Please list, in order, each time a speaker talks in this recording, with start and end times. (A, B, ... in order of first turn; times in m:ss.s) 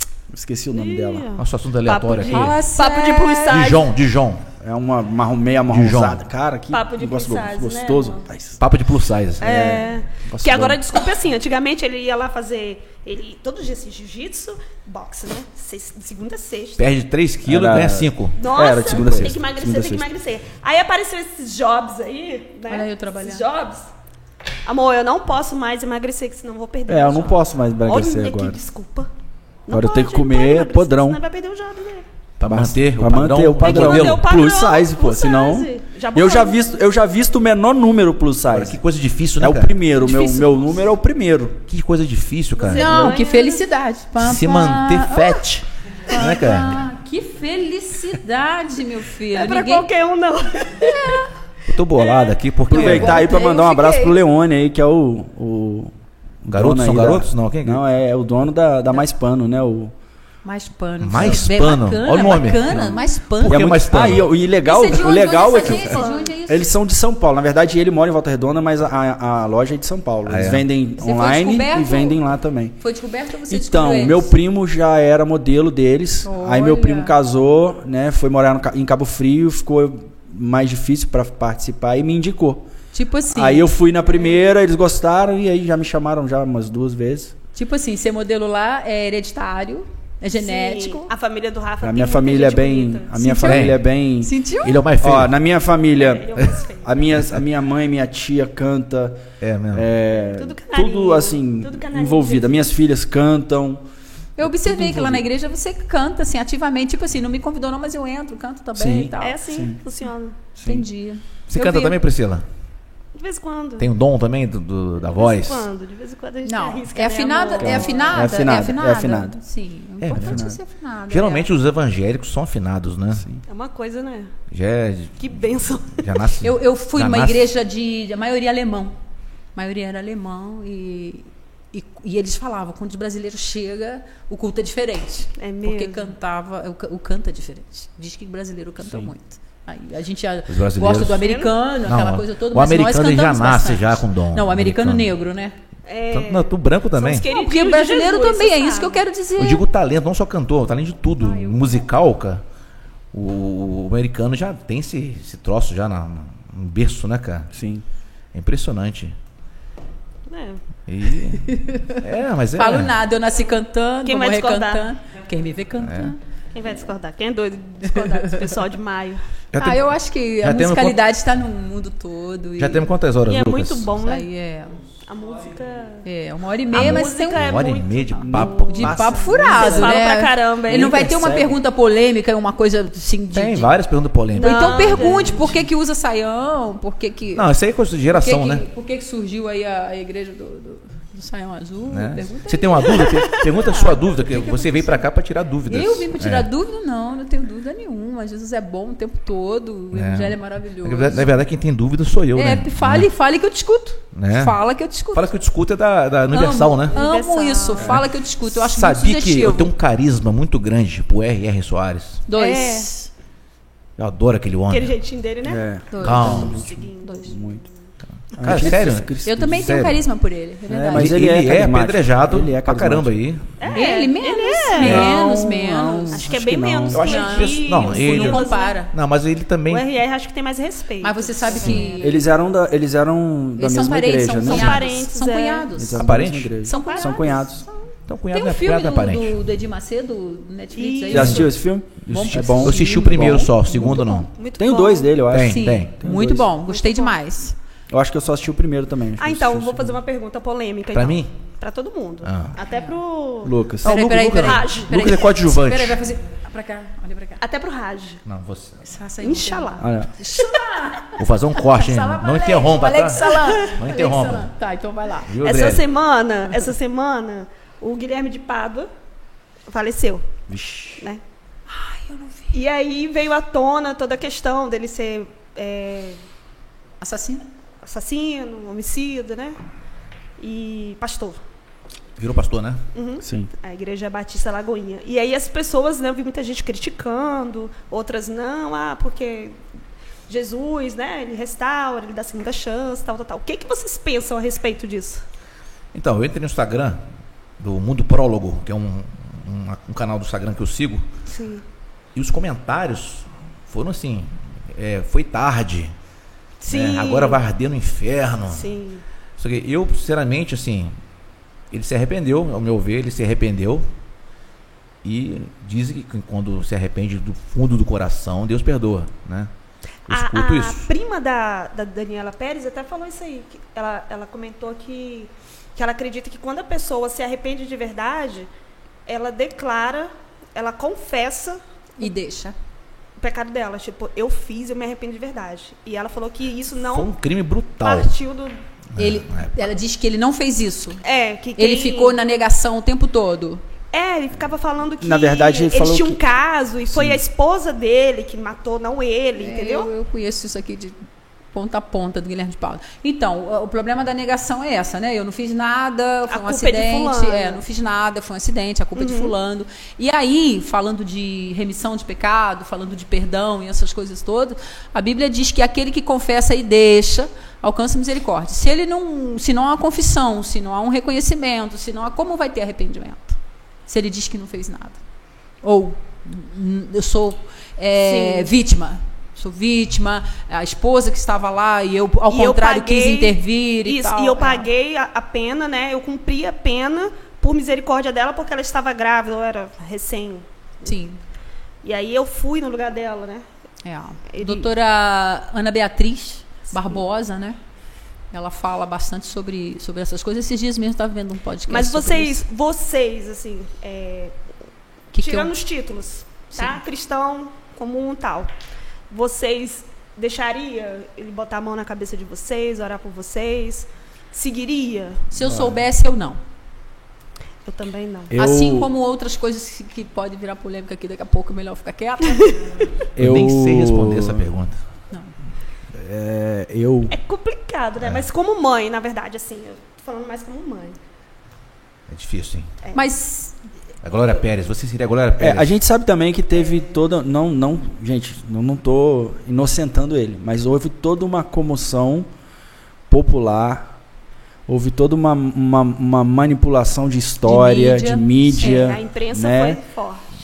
0:00.3-0:01.3 A
0:00.7-0:03.9 B
0:01.4-0:02.6 C
0:02.2-0:03.6 D
0:03.5-0:04.5 C
0:04.6-0:08.6 A
0:05.7-0:06.2 C
0:06.7-0:08.2 B
0:08.6-0:09.7 C
0:09.4-0:16.9 B
0:09.4-0:10.8 A
0:16.8-0:19.4 C
0:17.4-0:20.0 A
0:18.4-0:23.9 B
0:22.7-0:23.4 D
0:24.6-0:29.1 B
0:26.9-0:28.6 A
0:29.7-0:32.0 B
0:29.7-0:31.2 A
0:32.4-0:34.3 C
0:32.4-0:38.8 A
0:33.6-0:36.6 B
0:38.5-0:39.8 C
0:39.4-0:41.6 A
0:40.0-0:40.5 D
0:41.7-0:43.1 C
0:42.5-0:43.6 B
0:42.7-0:45.4 D
0:44.2-0:46.8 C
0:46.1-0:49.9 D
0:49.3-0:51.2 B
0:50.8-0:51.3 D
0:51.7-0:53.3 C
0:51.9-0:52.4 B
0:52.7-0:59.9 A
0:52.7-0:54.2 D
0:56.5-0:57.8 C
1:00.4-1:03.7 D
1:01.0-1:04.3 C
1:02.7-1:12.8 A
1:04.6-1:06.7 D
1:05.4-1:06.3 B
1:10.2-1:10.6 C
1:11.0-1:12.2 D
1:12.8-1:14.3 D
1:13.5-1:22.7 A
1:16.2-1:17.1 D
1:22.9-1:23.7 D
1:23.3-1:27.3 A
1:27.5-1:31.1 D
1:30.4-1:33.3 B
1:31.8-1:34.3 A
1:33.2-1:34.8 D
1:33.4-1:33.8 C
1:34.6-1:35.3 C
1:35.0-1:43.8 A
1:36.0-1:37.1 B
1:39.4-1:39.9 C
1:40.1-1:42.7 B
1:44.4-1:49.4 D
1:44.4-1:45.2 A
1:48.7-1:49.8 A
1:49.1-1:50.4 B
1:50.6-1:50.9 A
1:50.6-1:52.0 D
1:51.5-1:52.4 C
1:53.1-1:53.9 B
1:53.8-1:55.7 C
1:55.0-1:58.2 B
1:56.4-2:01.5 D
1:57.6-1:59.4 A
2:00.0-2:00.5 C
2:00.1-2:00.6 A
2:01.1-2:03.2 C
2:03.1-2:03.4 A
2:03.5-2:04.3 B
2:04.5-2:07.5 C
2:05.2-2:06.2 B
2:06.4-2:08.9 D
2:09.5-2:25.6 D
2:15.4-2:16.1 B
2:20.5-2:21.2 C
2:21.2-2:21.5 B
2:21.8-2:25.1 C
2:25.8-2:29.0 B
2:26.1-2:27.2 C
2:27.2-2:29.6 D
2:29.4-2:32.4 C
2:31.2-2:31.6 D
2:33.1-2:37.5 C
2:37.5-2:37.8 A
2:38.3-2:39.1 C
2:40.3-2:40.6 B
2:40.9-2:43.0 C
2:41.4-2:42.0 D
2:42.6-2:46.2 D
2:44.0-2:44.9 B
2:45.8-2:46.1 C
2:46.5-2:49.2 B
2:49.5-2:51.0 C
2:49.6-2:52.9 D
2:52.6-2:53.9 C
2:53.3-2:54.3 B
2:54.0-2:54.8 D
2:55.0-2:56.0 B
2:56.0-2:57.6 D
2:56.7-3:01.1 B
2:56.7-2:59.5 C
2:58.2-3:00.0 A
2:58.3-3:03.7 D
3:00.7-3:01.6 A
3:03.3-3:05.4 C
3:04.3-3:05.6 B
3:04.4-3:07.5 D
3:07.3-3:08.6 C
3:08.1-3:15.0 D
3:11.9-3:16.5 C
3:13.6-3:14.0 B
3:15.7-3:21.4 D
3:19.9-3:23.1 C
3:22.3-3:25.3 D
3:24.1-3:24.6 C
3:25.1-3:27.0 C
3:26.3-3:29.7 D
3:26.9-3:28.0 B
3:28.5-3:32.2 C
3:32.3-3:33.1 D
3:32.3-3:32.9 B
3:34.0-3:34.9 C
3:34.7-3:35.6 B
3:35.4-3:37.6 A
3:35.9-3:36.5 D
3:36.0-3:36.6 C
3:36.2-3:37.6 B
3:37.0-3:37.3 D
3:38.3-3:40.0 C
3:38.4-3:39.6 A
3:39.2-3:41.2 D
3:40.7-3:43.1 A
3:40.9-3:43.8 C
3:43.6-3:45.1 B
3:43.7-3:46.2 D
3:44.8-3:47.1 A
3:44.8-3:45.2 C
3:46.1-3:48.8 B
3:46.9-3:49.9 C
3:47.0-3:48.9 D
3:49.7-3:52.0 B
3:51.0-3:52.3 D
3:51.6-3:54.9 A
3:53.6-3:56.1 D
3:54.4-3:55.7 B
3:55.7-3:57.6 A
3:56.0-3:56.5 C
3:56.6-3:57.5 D
3:56.7-3:57.4 B
3:58.1-3:59.4 C
3:58.3-4:01.6 D
4:00.7-4:01.5 B
4:01.1-4:03.7 A
4:01.1-4:01.5 C
4:02.0-4:04.3 C
4:02.1-4:04.2 D
4:03.8-4:05.1 B
4:04.6-4:06.5 A
4:05.3-4:05.9 C
4:05.4-4:07.6 D
4:06.5-4:07.2 B
4:07.9-4:10.0 A
4:09.2-4:13.6 B
4:10.9-4:11.3 C
4:12.2-4:12.6 C
4:12.6-4:13.0 D
4:13.4-4:14.0 A
4:13.8-4:16.0 C
4:13.8-4:17.4 D
4:14.4-4:15.1 B
4:17.4-4:18.2 B
4:18.2-4:18.8 C
4:18.8-4:25.3 D
4:19.2-4:20.6 B
4:19.8-4:20.1 A
4:21.2-4:24.5 C
4:23.2-4:23.8 B
4:25.3-4:25.9 C
4:25.4-4:28.9 B
4:29.7-4:30.3 B
4:30.5-4:31.0 A
4:31.7-4:32.6 D
4:32.5-4:36.2 B
4:37.0-4:37.4 D
4:37.8-4:39.6 B
4:40.4-4:41.4 B
4:42.2-4:42.8 C
4:42.9-4:49.6 B
4:43.2-4:43.5 A
4:50.3-4:55.2 B
4:55.9-4:57.0 C
4:57.6-5:01.0 C
5:01.3-5:01.6 B
5:02.1-5:05.9 C
5:06.6-5:07.4 B
5:06.7-5:08.7 C
5:08.5-5:09.0 B
5:09.4-5:11.0 C
5:11.7-5:13.9 C
5:15.0-5:19.5 C
5:20.1-5:20.9 C
5:20.1-5:28.5 B
5:29.0-5:31.6 B
5:32.0-5:32.5 D
5:33.2-5:37.1 B
5:36.9-5:38.1 C
5:37.8-5:38.6 B
5:38.9-5:39.6 C
5:39.0-5:41.0 D
5:41.0-5:42.2 B
5:41.6-5:43.6 D
5:43.9-5:49.9 B
5:45.0-5:46.2 A
5:49.4-5:51.0 D
5:51.5-6:15.0 D
5:56.3-5:57.6 B
5:59.0-5:59.3 B
6:15.6-6:24.7 D
6:18.0-6:18.5 B
6:22.3-6:30.9 B
6:30.8-6:31.2 D
6:31.8-6:33.4 B
6:33.8-6:37.6 D
6:34.3-6:34.7 B
6:38.3-6:42.4 D
6:41.7-6:44.4 B
6:45.1-6:48.5 B
6:45.1-6:45.5 D
6:46.5-6:46.8 D
6:49.1-6:55.2 B
6:55.3-6:56.4 D
6:55.4-6:55.8 A
6:57.6-6:58.3 B
6:58.3-6:58.9 A
6:58.4-7:02.6 D
7:03.2-7:04.4 A
7:03.2-7:04.8 C
7:05.9-7:07.1 A
7:07.1-7:11.0 B
7:08.0-7:08.2 C
7:12.1-7:12.7 C
7:12.9-7:13.6 D
7:14.0-7:15.7 C
7:15.4-7:22.3 A
7:23.1-7:23.9 A
7:24.7-7:29.8 A
7:27.4-7:28.9 D
7:28.6-7:30.2 B